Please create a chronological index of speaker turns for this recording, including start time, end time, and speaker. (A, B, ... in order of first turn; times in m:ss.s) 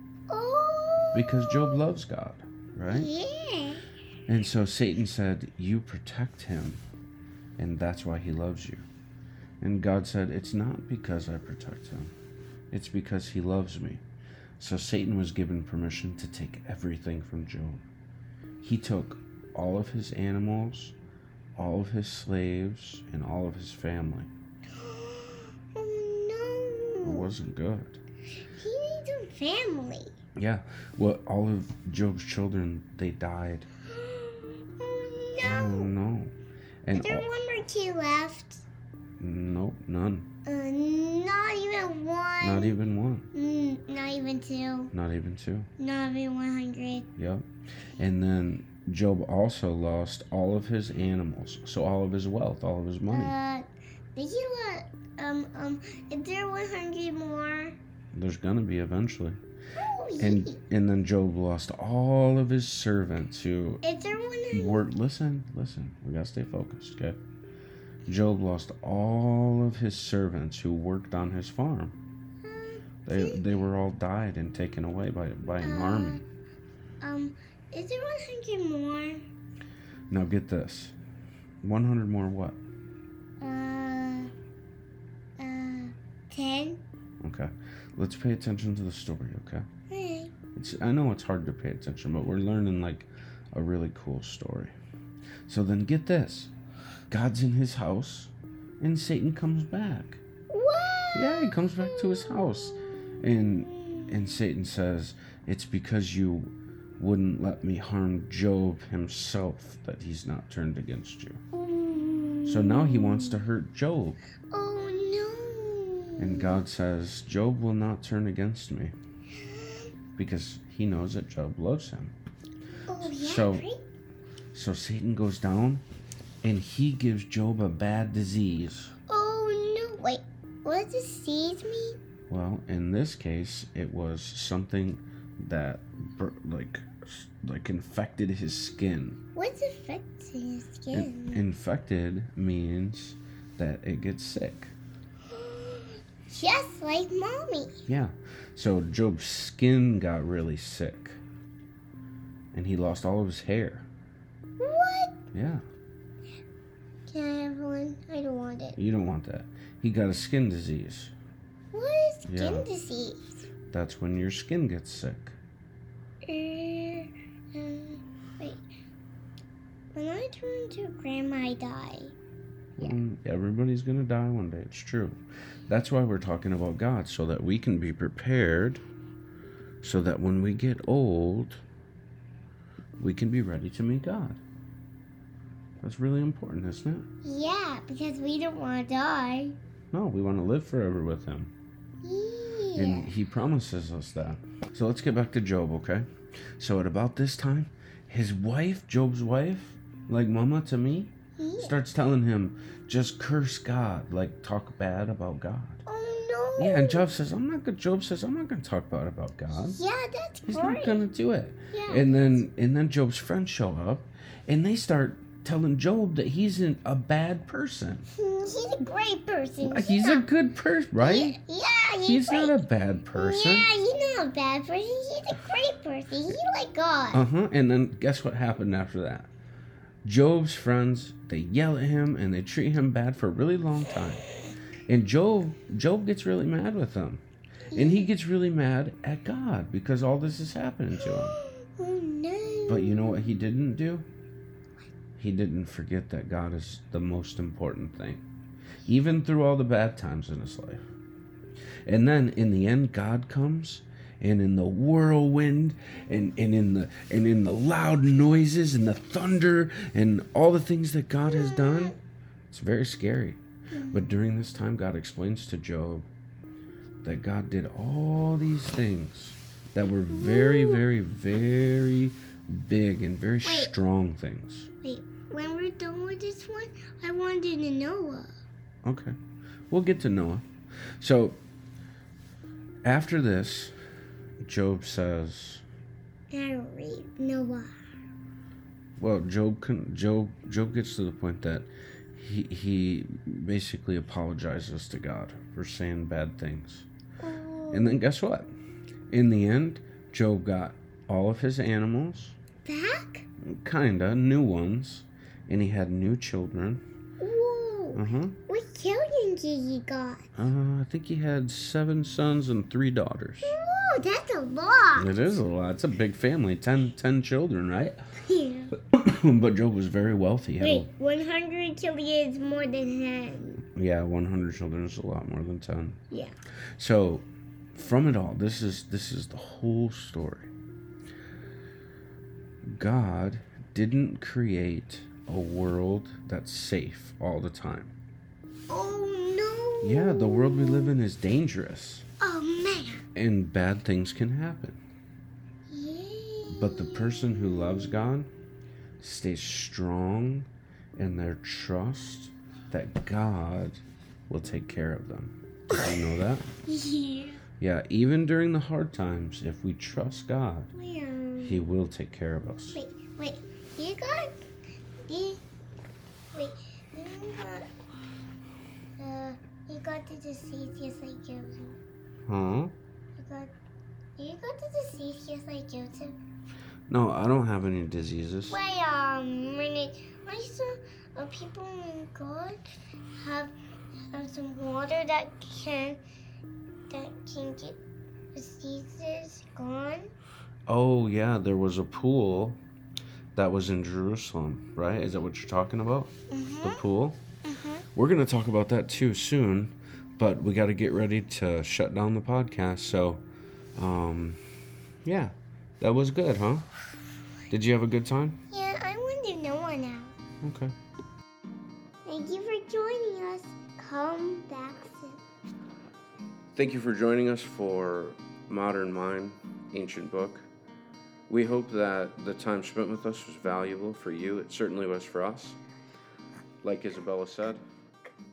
0:00.3-0:01.8 A
0:01.1-0:03.1 B
0:02.9-0:03.8 A
0:04.3-0:06.8 B
0:07.6-0:08.9 B
0:09.6-0:12.1 B
0:12.7-0:14.0 B
0:14.6-0:17.8 B
0:18.6-0:21.0 B
0:21.6-0:24.3 B
0:24.7-0:27.3 A
0:27.0-0:28.0 B
0:28.6-0:30.1 A
0:30.4-0:33.7 B
0:33.9-0:35.9 A
0:35.4-0:36.3 B
0:36.8-0:37.3 B
0:36.9-0:38.6 A
0:39.2-0:40.3 B
0:40.5-0:42.8 A
0:42.4-0:43.3 B
0:43.3-0:44.9 A
0:44.9-0:45.7 B
0:45.8-0:47.1 A
0:47.2-0:47.4 B
0:48.0-0:53.3 B
0:53.1-0:57.8 A
0:58.1-0:59.4 B
0:59.8-1:00.6 A
1:00.2-1:03.8 B
1:03.8-1:04.9 A
1:04.5-1:07.2 B
1:08.1-1:12.0 B
1:12.4-1:13.4 A
1:13.0-1:16.2 B
1:15.6-1:16.2 A
1:17.0-1:19.2 A
1:20.1-1:21.0 B
1:21.6-1:22.6 B
1:23.4-1:24.3 A
1:25.4-1:26.8 A
1:27.2-1:29.7 B
1:29.9-1:30.3 A
1:30.5-1:34.7 B
1:35.5-1:36.5 B
1:37.1-1:40.2 B
1:40.5-1:44.4 A
1:41.1-1:51.4 B
1:51.5-1:53.4 A
1:52.4-1:54.2 B
1:54.5-1:56.6 A
1:56.2-1:59.0 B
1:59.4-1:59.9 A
2:00.2-2:02.2 B
2:02.9-2:03.8 A
2:03.0-2:03.7 B
2:04.5-2:05.8 B
2:06.4-2:08.9 B
2:09.1-2:12.0 A
2:12.3-2:19.2 B
2:19.4-2:21.4 A
2:20.9-2:24.7 B
2:25.3-2:27.8 A
2:27.9-2:31.2 B
2:32.5-2:33.9 B
2:34.6-2:35.2 A
2:35.3-2:35.6 B
2:37.1-2:38.8 A
2:38.8-2:41.1 B
2:41.7-2:43.4 A
2:42.3-2:42.7 B
2:43.7-2:45.4 B
2:46.2-2:48.6 A
2:49.9-2:52.2 A
2:52.8-2:58.8 B
2:59.8-3:01.6 B
3:03.0-3:04.4 B
3:05.8-3:07.1 B
3:07.2-3:09.6 A
3:09.9-3:11.5 B
3:12.0-3:13.1 A
3:12.8-3:16.1 B
3:16.6-3:25.8 B
3:21.4-3:21.8 A
3:25.9-3:27.1 A
3:26.6-3:29.8 B
3:29.7-3:31.1 A
3:30.5-3:38.1 B
3:31.7-3:32.4 A
3:38.1-3:40.3 A
3:39.6-3:41.4 B
3:41.0-3:42.6 A
3:42.0-3:43.7 B
3:43.1-3:47.2 A
3:47.1-3:49.3 B
3:50.0-3:54.2 B
3:54.9-3:57.2 B
3:57.7-3:58.1 A
3:57.7-4:01.4 B
4:01.0-4:03.4 A
4:02.7-4:04.1 B
4:05.2-4:08.2 B
4:08.8-4:10.8 B
4:11.9-4:22.0 B
4:21.2-4:22.0 A
4:22.5-4:23.4 B
4:23.7-4:24.1 A
4:23.9-4:26.1 B
4:27.0-4:34.7 B
4:30.1-4:30.9 A
4:33.4-4:33.7 A
4:34.8-4:38.3 A
4:38.8-4:39.2 B
4:39.7-4:40.5 B
4:41.0-4:41.4 B
4:42.8-4:43.7 B
4:44.4-4:45.6 B
4:46.3-4:47.7 A
4:49.0-4:56.9 B
4:57.2-4:58.0 A
4:57.7-4:58.5 B
4:59.1-5:02.4 B
5:02.6-5:03.3 A
5:03.4-5:06.8 B
5:07.2-5:10.2 A
5:08.0-5:08.4 B
5:10.4-5:13.6 B
5:13.4-5:15.4 A
5:15.0-5:18.0 B
5:18.2-5:18.7 A
5:18.8-5:20.9 B
5:20.6-5:23.6 A
5:23.8-5:26.0 B
5:26.8-5:30.5 B
5:32.6-5:37.9 B
5:38.7-5:41.0 A
5:39.8-5:42.1 B
5:42.2-5:43.0 A
5:43.2-5:44.8 B
5:45.7-5:48.1 A
5:46.5-5:48.3 B
5:49.0-5:56.5 B
5:55.7-5:56.0 A
5:56.6-5:57.4 A
5:57.6-6:00.7 B
6:00.7-6:01.6 A
6:01.4-6:02.8 B
6:02.7-6:04.4 A
6:05.1-6:05.4 A
6:06.3-6:07.7 A
6:09.0-6:11.8 A
6:12.3-6:12.7 B
6:13.2-6:13.6 A
6:14.2-6:16.2 A
6:16.9-6:18.6 B
6:18.5-6:22.6 A
6:23.2-6:23.6 A
6:24.1-6:26.0 A
6:26.9-6:27.8 A
6:28.3-6:30.1 A
6:30.7-6:32.6 B
6:33.4-6:37.2 B
6:36.3-6:36.8 A
6:37.4-6:37.9 A
6:38.0-6:43.2 B
6:43.8-6:44.4 B
6:45.0-6:46.7 B
6:47.5-6:48.4 B
6:48.5-6:50.1 A
6:50.4-6:50.7 B
6:52.0-6:55.2 A
6:56.6-7:00.5 B
7:01.3-7:05.6 B
7:06.6-7:07.6 B